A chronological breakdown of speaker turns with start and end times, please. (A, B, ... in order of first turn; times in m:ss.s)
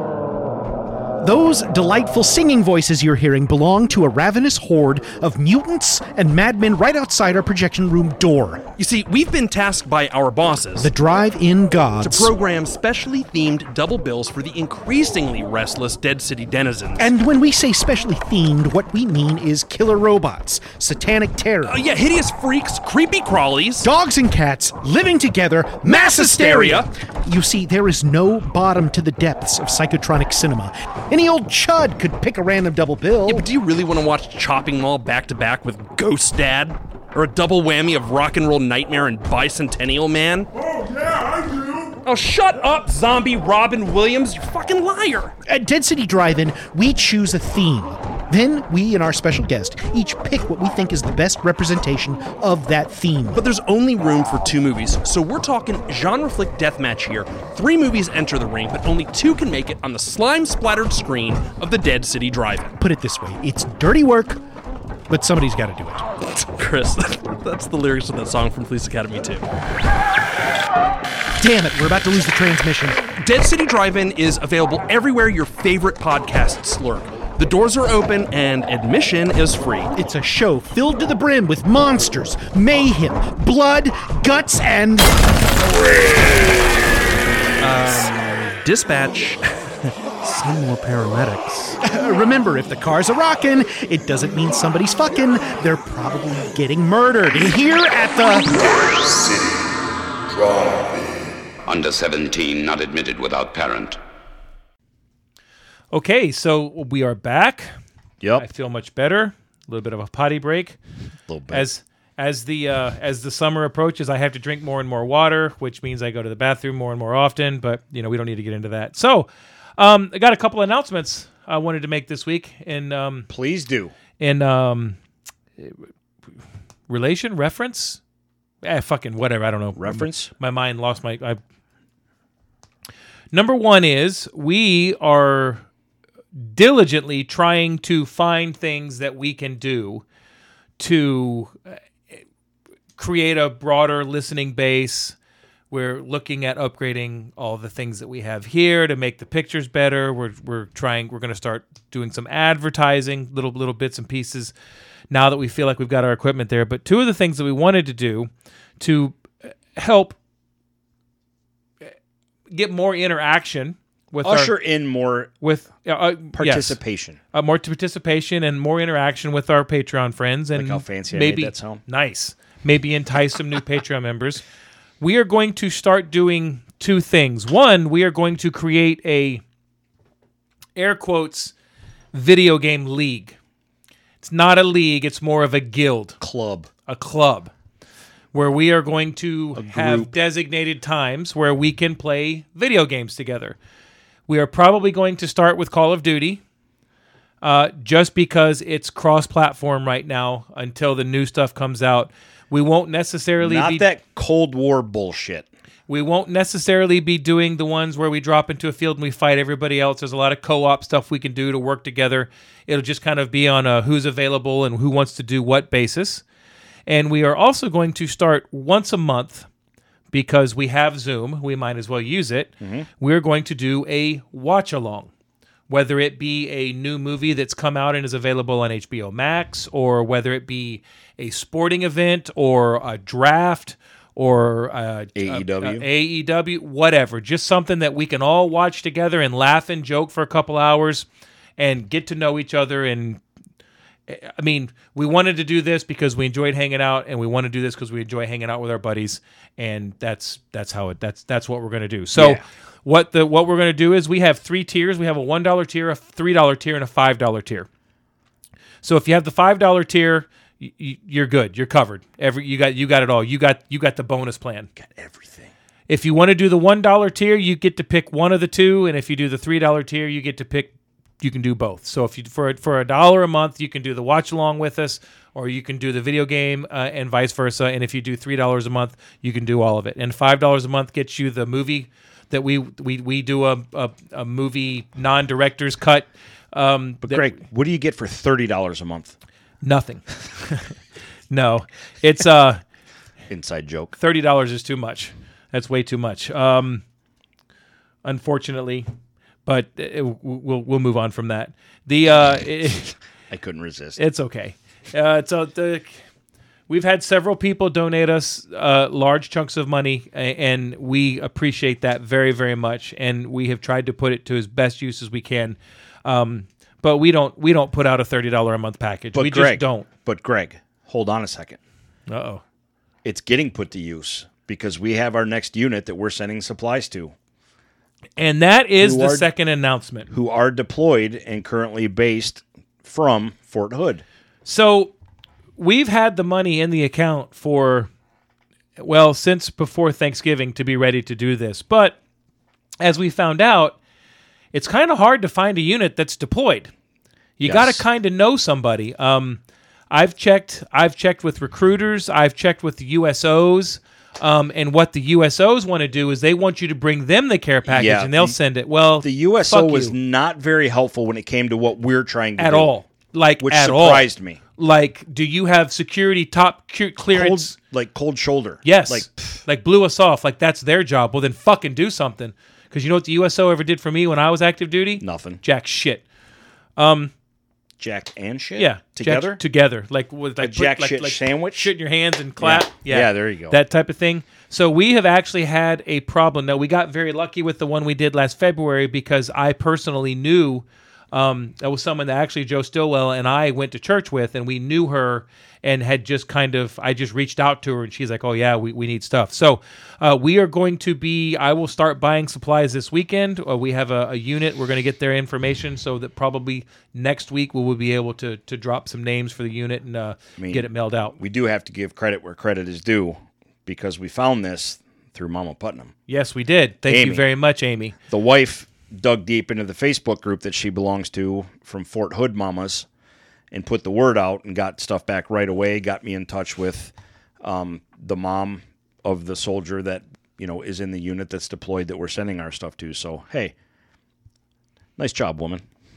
0:01.2-0:08.6 A
0:08.8-0:10.9 B
0:10.8-0:12.3 A
0:12.0-0:17.1 B
0:17.0-0:21.8 A
0:21.6-0:23.9 B
0:23.8-0:33.5 A
0:25.9-0:26.9 B
0:33.2-0:45.3 B
0:45.4-0:53.4 A
0:53.3-1:02.7 B
1:02.8-1:04.4 A
1:05.1-1:06.0 A
1:06.3-1:09.4 B
1:11.4-1:13.0 A
1:13.2-1:19.9 B
1:19.9-1:25.1 A
1:27.6-1:29.4 B
1:30.2-1:31.8 B
1:31.8-1:38.5 A
1:38.5-1:44.0 C
1:45.9-1:47.7 D
1:48.4-1:50.8 D
1:51.3-1:51.6 E
1:51.5-2:03.3 D
2:03.3-2:03.9 E
2:04.2-2:05.0 D
2:06.9-2:08.0 D
2:08.6-2:11.4 D
2:09.8-2:10.3 E
2:13.3-2:15.6 D
2:16.4-2:20.0 D
2:20.8-2:21.6 D
2:23.0-2:25.2 D
2:25.7-2:34.5 D
2:35.1-2:40.2 D
2:42.5-2:44.5 D
2:44.2-2:45.3 E
2:45.4-2:46.8 D
2:46.3-2:47.2 E
2:47.3-2:54.4 D
2:50.5-2:51.8 E
2:55.0-2:59.4 D
3:00.8-3:01.5 D
3:02.1-3:03.4 D
3:04.2-3:06.2 D
3:06.2-3:06.7 E
3:06.9-3:07.5 D
3:08.3-3:13.6 D
3:09.5-3:10.1 E
3:14.3-3:16.4 D
3:17.4-3:23.8 D
3:23.4-3:25.5 E
3:25.9-3:36.2 D
3:36.8-3:39.4 D
3:40.1-3:45.1 D
3:42.6-3:42.9 E
3:45.7-4:03.2 D
3:55.2-3:55.8 E
4:04.1-4:17.7 D
4:12.2-4:12.4 E
4:18.8-4:24.7 D
4:24.8-4:25.5 E
4:25.9-4:47.3 D
4:47.0-4:49.1 E
4:49.6-4:50.8 D
4:51.3-4:52.6 D
4:53.3-4:53.9 E
4:54.0-4:56.8 D
4:58.0-4:58.9 D
4:59.4-5:02.9 D
5:03.3-5:04.0 E
5:04.0-5:06.0 D
5:06.7-5:19.9 D
5:19.1-5:21.6 E
5:22.1-5:22.4 D
5:23.0-5:27.1 E
5:28.2-5:30.1 D
5:28.8-5:29.3 E
5:30.1-5:34.0 E
5:34.4-5:34.9 D
5:35.6-5:37.9 D
5:38.8-5:42.0 D
5:42.8-5:43.8 D
5:44.5-5:46.7 D
5:47.4-5:59.9 D
5:47.4-5:47.8 E
5:57.7-5:58.4 E
5:59.0-6:02.7 E
6:02.4-6:07.5 D
6:03.4-6:04.4 E
6:07.1-6:09.4 E
6:08.6-6:16.0 D
6:15.0-6:15.4 E
6:16.8-6:17.1 D
6:17.8-6:19.4 E
6:18.6-6:51.2 D
6:20.4-6:21.7 E
6:22.4-6:23.6 E
6:50.4-6:55.9 E
6:56.1-6:57.9 D
6:56.9-6:57.2 E
6:58.1-7:02.8 E
7:03.5-7:13.5 E
7:15.0-7:15.6 E